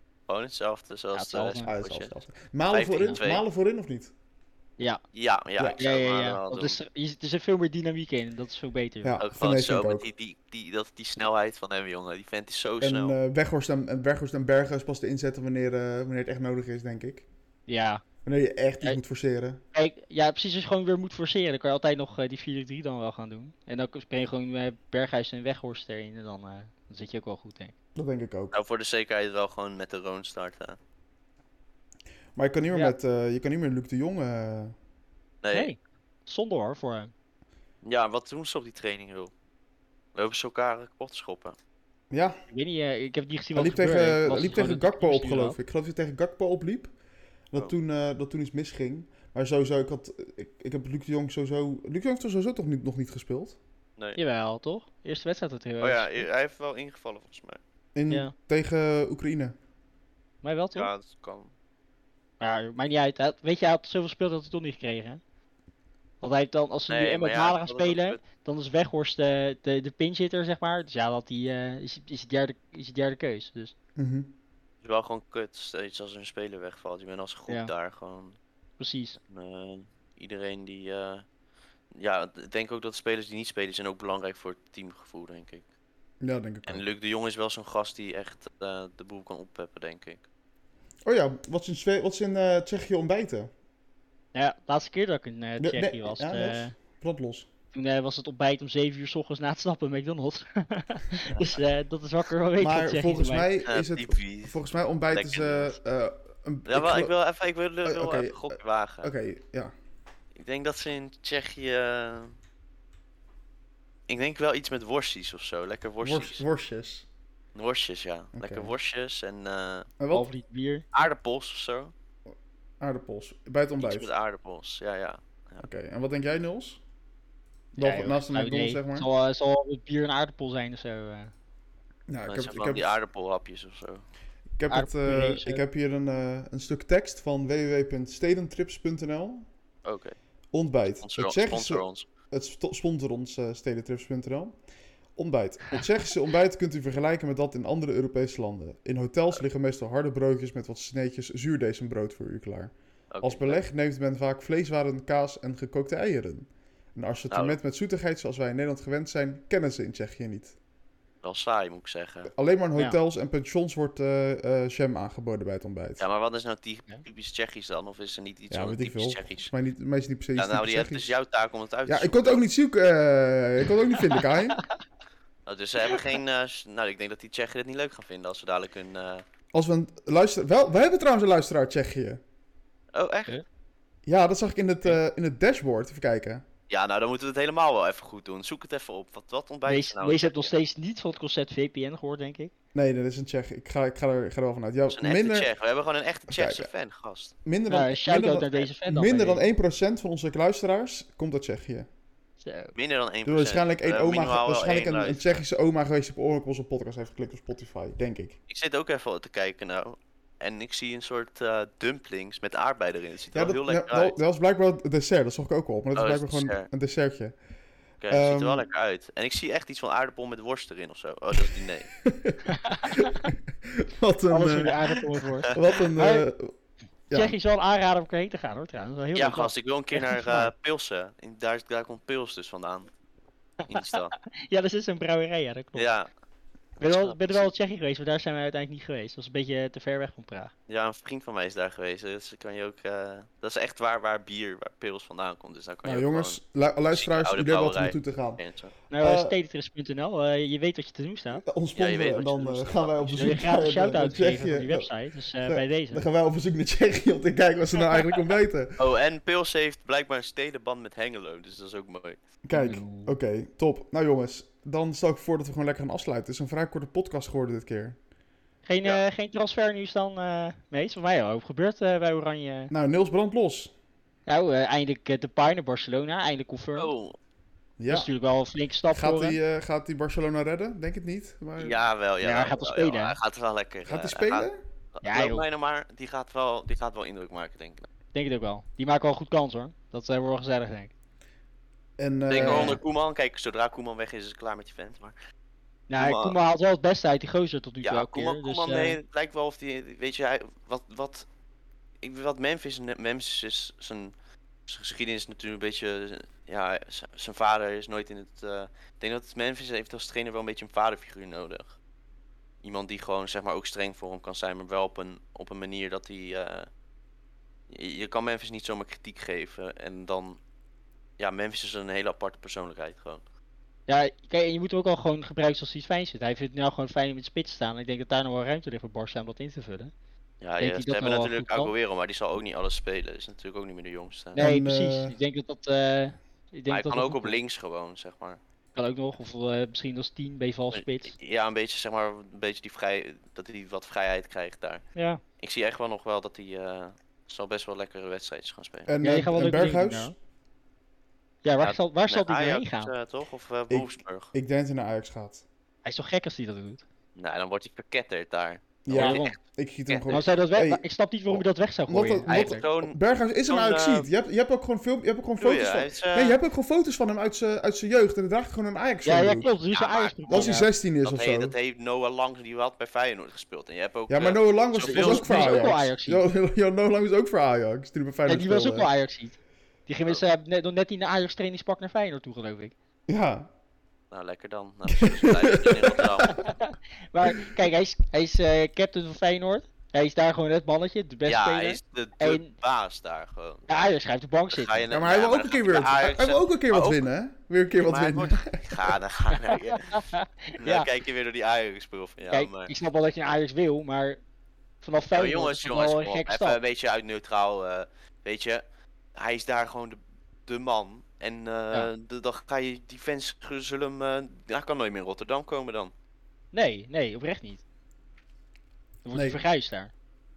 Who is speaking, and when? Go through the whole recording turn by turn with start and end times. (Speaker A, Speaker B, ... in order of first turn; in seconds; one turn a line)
Speaker A: 0.3-2.1
Speaker B: 1.1-1.7
Speaker C: 1.6-4.1
Speaker A: 2.7-3.4
Speaker A: 5.1-6.8
Speaker B: 5.8-9.2
Speaker C: 9.0-10.1
Speaker A: 9.2-13.2
Speaker C: 12.8-17.2
Speaker B: 17.7-18.0
Speaker C: 18.2-19.6
Speaker B: 19.7-27.7
Speaker C: 27.9-28.5
Speaker A: 28.5-30.8
Speaker C: 32.4-34.8
Speaker A: 35.4-35.7
Speaker B: 35.5-37.1
Speaker A: 37.8-39.3
Speaker A: 40.1-41.6
Speaker C: 42.1-42.4
Speaker B: 42.5-45.6
Speaker C: 43.5-46.9
Speaker C: 47.5-53.6
Speaker B: 54.2-56.3
Speaker A: 55.8-57.6
Speaker C: 58.0-59.5
Speaker B: 60.4-60.9
Speaker A: 60.8-61.5
Speaker B: 62.4-65.2
Speaker B: 66.2-73.7
Speaker A: 66.9-68.2
Speaker C: 74.0-74.3
Speaker A: 74.8-78.4
Speaker B: 78.8-79.2
Speaker A: 79.2-81.2
Speaker A: 82.0-85.6
Speaker C: 86.2-86.8
Speaker A: 86.7-90.3
Speaker C: 91.0-93.5
Speaker B: 94.3-96.7
Speaker C: 95.6-97.5
Speaker B: 97.7-103.5
Speaker C: 102.6-107.1
Speaker A: 103.7-104.6
Speaker A: 105.1-105.8
Speaker A: 106.7-109.1
Speaker C: 107.8-109.7
Speaker A: 110.4-112.3
Speaker A: 114.1-116.4
Speaker C: 116.0-117.1
Speaker A: 117.5-119.9
Speaker C: 118.3-118.7
Speaker C: 120.0-120.3
Speaker B: 120.1-120.8
Speaker A: 120.9-121.9
Speaker C: 122.8-124.1
Speaker A: 123.8-125.6
Speaker C: 125.6-126.8
Speaker B: 127.8-131.3
Speaker C: 127.8-129.1
Speaker C: 132.1-132.9
Speaker A: 132.3-134.0
Speaker C: 134.6-139.5
Speaker B: 134.7-135.6
Speaker A: 139.9-140.2
Speaker C: 140.5-144.6
Speaker A: 141.0-142.0
Speaker C: 145.2-160.6
Speaker A: 153.1-153.6
Speaker A: 157.3-157.6
Speaker A: 161.2-162.3
Speaker C: 162.3-166.0
Speaker A: 166.0-169.5
Speaker C: 168.5-171.1
Speaker A: 170.4-172.4
Speaker C: 171.9-174.6
Speaker A: 175.5-179.2
Speaker C: 179.5-182.2
Speaker A: 182.9-183.4
Speaker C: 184.1-186.4
Speaker A: 186.7-190.6
Speaker B: 189.7-192.5
Speaker C: 192.7-195.5
Speaker A: 194.9-197.3
Speaker C: 196.3-196.7
Speaker C: 197.4-201.9
Speaker B: 197.7-199.4
Speaker B: 202.4-202.7
Speaker A: 202.8-205.4
Speaker C: 203.3-208.4
Speaker A: 208.5-214.2
Speaker C: 213.3-217.3
Speaker A: 215.9-216.7
Speaker A: 218.0-221.9
Speaker C: 218.1-218.7
Speaker C: 222.0-222.4
Speaker B: 222.5-223.3
Speaker C: 222.9-226.5
Speaker B: 224.3-226.3
Speaker C: 227.1-227.3
Speaker B: 227.1-230.4
Speaker A: 229.2-232.9
Speaker A: 233.7-234.1
Speaker B: 233.7-235.9
Speaker A: 235.8-236.1
Speaker A: 236.8-237.5
Speaker B: 236.8-240.5
Speaker A: 240.7-248.7
Speaker C: 245.8-248.4
Speaker B: 248.9-251.4
Speaker C: 249.0-249.4
Speaker C: 251.4-254.9
Speaker A: 251.8-253.3
Speaker B: 253.1-256.0
Speaker C: 255.4-258.8
Speaker A: 258.8-262.2
Speaker C: 262.4-268.0
Speaker B: 262.5-263.1
Speaker B: 268.7-272.7
Speaker C: 272.7-273.7
Speaker B: 274.3-276.9
Speaker A: 276.8-277.2
Speaker C: 277.8-278.1
Speaker B: 277.9-279.4
Speaker C: 278.9-281.8
Speaker A: 281.6-287.9
Speaker B: 282.2-283.2
Speaker C: 283.9-284.6
Speaker B: 285.0-285.4
Speaker B: 288.1-290.9
Speaker C: 292.0-292.8
Speaker A: 292.3-295.1
Speaker B: 292.4-292.8
Speaker B: 295.9-299.0
Speaker A: 296.0-296.4
Speaker A: 297.8-301.3
Speaker A: 302.0-304.1
Speaker A: 304.7-311.8
Speaker A: 312.6-316.7
Speaker A: 317.7-320.4
Speaker A: 321.2-323.2
Speaker B: 323.9-329.9
Speaker A: 330.4-334.4
Speaker B: 330.6-331.7
Speaker B: 334.4-337.4
Speaker C: 334.4-335.1
Speaker A: 336.7-338.4
Speaker B: 338.8-341.1
Speaker A: 340.7-344.8
Speaker B: 344.9-345.2
Speaker A: 345.4-348.9
Speaker C: 348.9-350.1
Speaker B: 349.0-350.1
Speaker B: 351.4-352.9
Speaker A: 351.6-354.3
Speaker C: 353.7-355.4
Speaker B: 355.9-356.8
Speaker A: 357.1-360.2
Speaker C: 358.9-360.8
Speaker B: 358.9-359.4
Speaker B: 360.1-362.6
Speaker C: 361.9-369.5
Speaker A: 362.3-364.1
Speaker A: 365.4-366.4
Speaker B: 369.0-370.7
Speaker A: 369.7-370.5
Speaker C: 370.3-371.6
Speaker A: 371.0-375.8
Speaker C: 374.1-378.9
Speaker B: 374.9-376.2
Speaker B: 378.3-382.7
Speaker C: 383.1-383.5
Speaker A: 384.1-386.4
Speaker C: 385.0-386.0
Speaker B: 386.3-392.5
Speaker A: 391.3-393.9
Speaker B: 393.7-394.8
Speaker A: 394.5-397.0
Speaker C: 394.9-398.9
Speaker A: 397.7-400.0
Speaker B: 399.8-400.9
Speaker A: 400.6-402.7
Speaker B: 402.3-404.2
Speaker B: 404.8-406.6
Speaker A: 405.1-415.9
Speaker B: 416.5-417.6
Speaker B: 419.0-419.9
Speaker C: 419.1-419.4